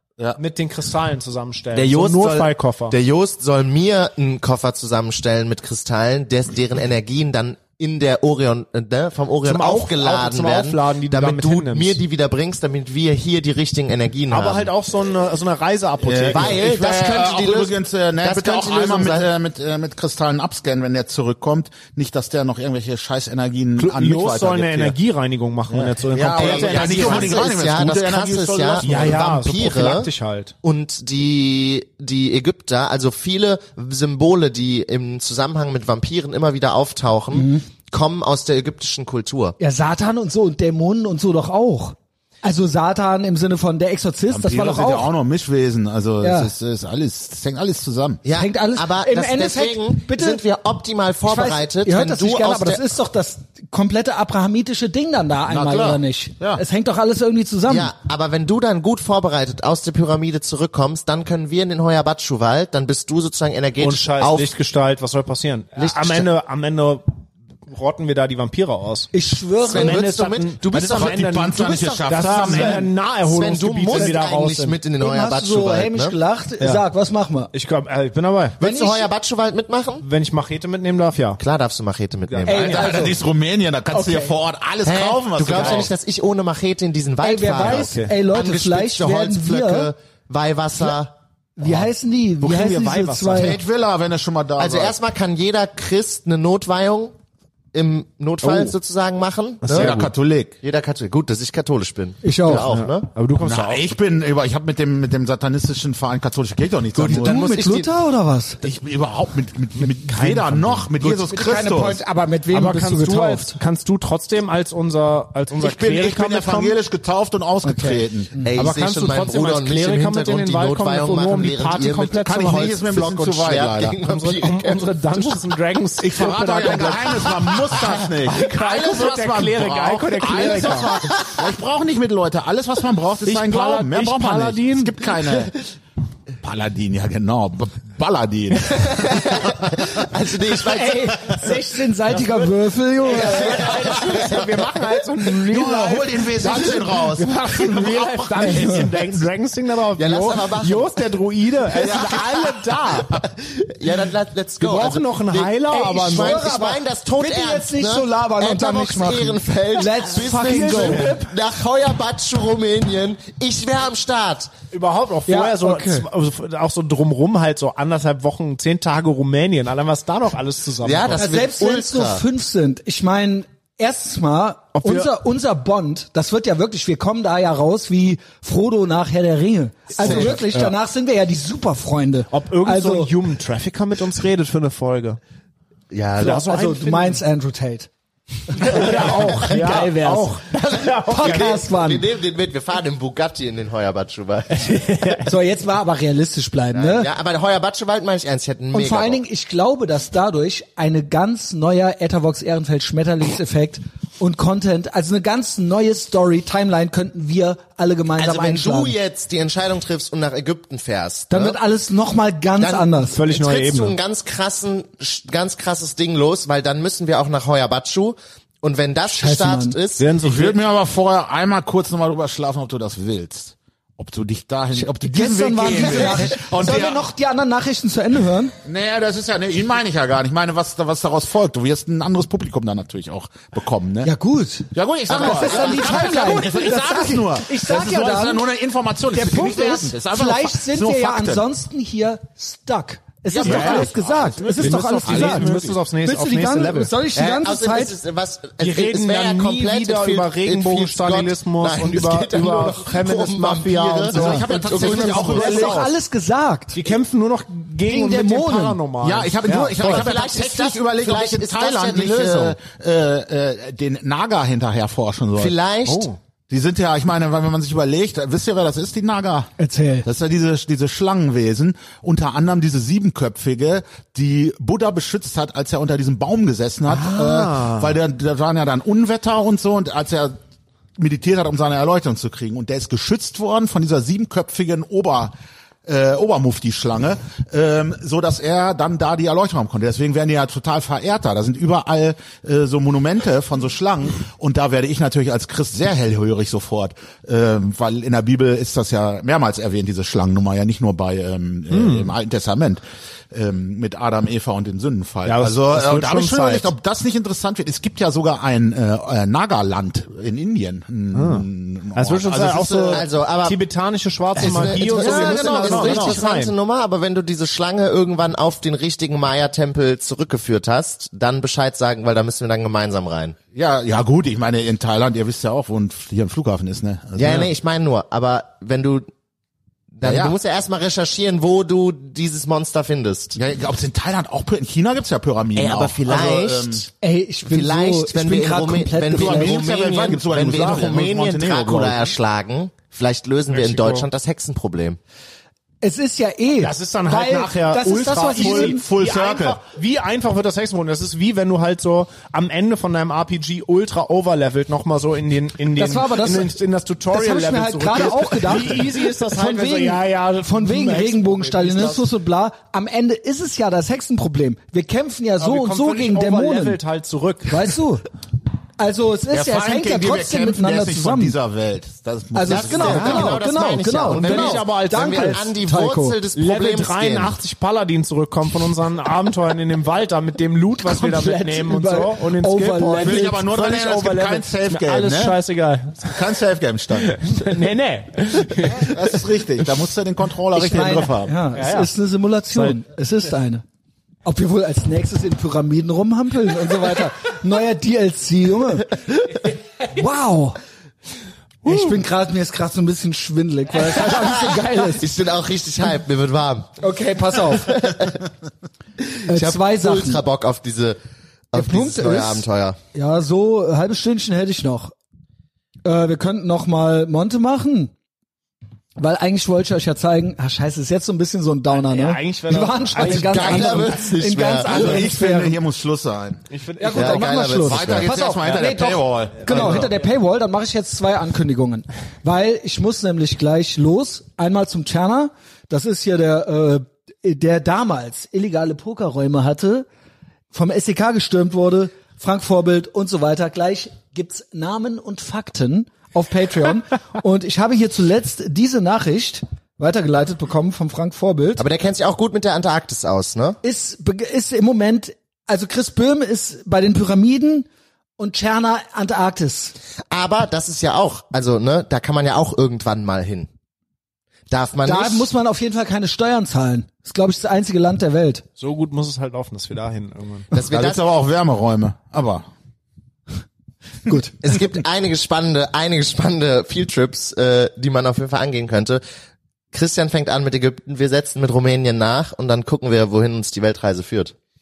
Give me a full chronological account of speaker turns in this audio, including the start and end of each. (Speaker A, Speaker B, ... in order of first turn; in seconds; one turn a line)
Speaker A: 0.3-3.0
Speaker B: 1.7-14.7
Speaker A: 9.4-12.0
Speaker A: 14.3-16.6
Speaker C: 16.0-24.9
Speaker B: 16.3-19.3
Speaker A: 23.8-27.4
Speaker C: 25.7-29.2
Speaker B: 26.4-30.1
Speaker A: 28.8-30.5
Speaker B: 30.6-39.5
Speaker D: 37.3-37.6
Speaker D: 39.6-45.1
Speaker C: 44.3-48.2
Speaker D: 46.2-46.5
Speaker B: 48.2-52.8
Speaker D: 48.4-50.4
Speaker D: 51.3-57.9
Speaker C: 55.5-56.6
Speaker B: 57.7-64.5
Speaker A: 63.8-67.1
Speaker B: 65.8-66.3
Speaker A: 67.7-69.1
Speaker D: 69.1-70.0
Speaker B: 69.6-76.2
Speaker A: 69.7-74.8
Speaker C: 70.8-72.9
Speaker D: 73.9-74.2
Speaker D: 75.0-77.5
Speaker A: 77.5-78.6
Speaker B: 78.6-80.0
Speaker D: 78.6-79.1
Speaker A: 80.0-81.4
Speaker B: 81.4-82.8
Speaker A: 82.3-83.0
Speaker D: 82.5-83.2
Speaker C: 82.5-85.9
Speaker D: 83.9-84.3
Speaker B: 84.8-91.1
Speaker A: 85.5-85.9
Speaker D: 87.2-89.9
Speaker A: 87.6-88.1
Speaker D: 91.6-93.6
Speaker A: 92.4-93.6
Speaker C: 93.3-95.0
Speaker B: 94.6-97.1
Speaker B: 97.7-100.0
Speaker A: 98.4-98.7
Speaker A: 99.6-100.0
Speaker C: 99.7-100.6
Speaker B: 100.6-103.1
Speaker D: 102.2-102.7
Speaker A: 102.5-103.9
Speaker C: 103.4-107.4
Speaker B: 106.9-107.9
Speaker D: 107.1-108.6
Speaker C: 108.6-112.0
Speaker A: 109.8-110.9
Speaker D: 111.0-113.6
Speaker A: 112.5-116.8
Speaker C: 115.5-118.3
Speaker D: 117.6-118.6
Speaker B: 118.4-125.4
Speaker A: 118.5-122.8
Speaker C: 122.2-124.0
Speaker A: 124.0-131.0
Speaker C: 126.0-135.5
Speaker B: 130.4-131.4
Speaker A: 133.2-135.5
Speaker C: 136.4-139.4
Speaker B: 138.8-141.4
Speaker D: 140.7-143.7
Speaker A: 142.1-153.1
Speaker B: 143.1-144.9
Speaker C: 145.4-149.2
Speaker D: 148.5-148.8
Speaker B: 149.9-151.0
Speaker B: 151.8-152.5
Speaker C: 151.8-152.2
Speaker B: 153.0-164.5
Speaker A: 154.6-156.5
Speaker D: 155.8-161.3
Speaker A: 160.3-161.2
Speaker A: 164.7-171.3
Speaker D: 165.3-166.1
Speaker B: 170.8-172.2
Speaker D: 171.2-183.1
Speaker A: 174.8-175.1
Speaker A: 180.0-180.7
Speaker B: 180.0-180.4
Speaker A: 182.3-185.2
Speaker B: 185.9-186.5
Speaker A: 186.2-187.2
Speaker D: 186.2-187.9
Speaker D: 188.5-190.4
Speaker A: 188.5-191.6
Speaker B: 190.7-194.8
Speaker D: 191.1-192.1
Speaker A: 194.5-195.3
Speaker D: 195.2-197.1
Speaker B: 196.7-199.2
Speaker D: 198.7-208.9
Speaker B: 208.2-211.6
Speaker D: 211.3-213.2
Speaker B: 212.6-220.1
Speaker A: 213.1-214.0
Speaker D: 219.1-219.8
Speaker A: 220.0-220.6
Speaker C: 220.2-227.1
Speaker D: 224.7-228.5
Speaker C: 228.6-234.1
Speaker D: 234.0-238.4
Speaker C: 234.7-241.4
Speaker D: 239.1-247.9
Speaker C: 243.3-245.8
Speaker A: 243.4-243.9
Speaker A: 244.6-247.0
Speaker B: 247.1-255.8
Speaker A: 248.6-254.9
Speaker C: 254.1-255.9
Speaker D: 254.2-256.8
Speaker A: 256.7-260.1
Speaker D: 257.9-258.8
Speaker C: 259.0-269.5
Speaker B: 259.8-262.6
Speaker B: 265.4-266.1
Speaker D: 269.6-270.1
Speaker C: 270.1-280.4
Speaker A: 276.9-277.9
Speaker C: 281.0-285.3
Speaker C: 285.8-313.1
Speaker A: 301.7-302.1
Speaker A: 305.3-306.7
Speaker A: 311.1-316.5
Speaker B: 312.9-313.6
Speaker B: 314.4-323.4
Speaker C: 314.4-316.2
Speaker C: 323.5-327.5
Speaker B: 327.2-329.1
Speaker B: 329.9-333.4
Speaker C: 330.0-330.4
Speaker C: 333.4-336.9
Speaker B: 335.6-336.9
Speaker D: 337.0-339.6
Speaker B: 337.4-345.0
Speaker C: 339.1-342.1
Speaker A: 343.5-344.1
Speaker D: 345.8-348.8
Speaker A: 346.6-362.1
Speaker C: 348.3-349.6
Speaker D: 355.8-356.5
Speaker D: 357.1-366.8
Speaker A: 365.4-367.8
Speaker D: 367.5-368.0
Speaker D: 368.8-371.4
Speaker C: 369.3-373.4
Speaker D: 372.3-376.2
Speaker B: 372.5-377.4
Speaker A: 372.9-373.3
Speaker A: 374.2-375.4
Speaker C: 374.2-374.6
Speaker A: 376.3-386.4
Speaker D: 380.8-383.4
Speaker C: 383.0-385.4
Speaker C: 386.1-387.3
Speaker A: 387.0-389.1
Speaker C: 388.7-391.4
Speaker D: 390.5-393.6
Speaker A: 391.6-391.9
Speaker A: 392.5-392.8
Speaker D: 394.2-398.9
Speaker D: 399.9-400.6
Speaker D: 401.6-405.1
Speaker A: 401.6-401.9
Speaker B: 403.9-406.7
Speaker D: 406.8-407.8
Speaker B: 407.5-408.3
Speaker B: 409.0-411.0
Speaker D: 409.3-410.2
Speaker B: 411.5-412.8
Speaker D: 411.5-414.9
Speaker D: 415.8-417.9
Speaker D: 419.0-425.6
Speaker A: 421.7-424.0
Speaker B: 423.0-425.1
Speaker C: 424.6-426.4
Speaker A: 426.5-427.4
Speaker D: 426.8-439.9
Speaker B: 426.9-428.1
Speaker C: 427.5-429.9
Speaker A: 429.4-429.9
Speaker D: 440.5-451.6
Speaker B: 451.6-453.6
Speaker D: 453.6-457.7
Speaker D: 458.2-459.7
Speaker B: 460.1-463.5
Speaker B: 464.5-465.3
Speaker D: 464.8-468.4
Speaker A: 468.6-470.5
Speaker B: 470.5-471.0
Speaker C: 470.6-472.5
Speaker D: 474.1-474.3
Speaker B: 474.3-479.0
Speaker B: 479.7-484.3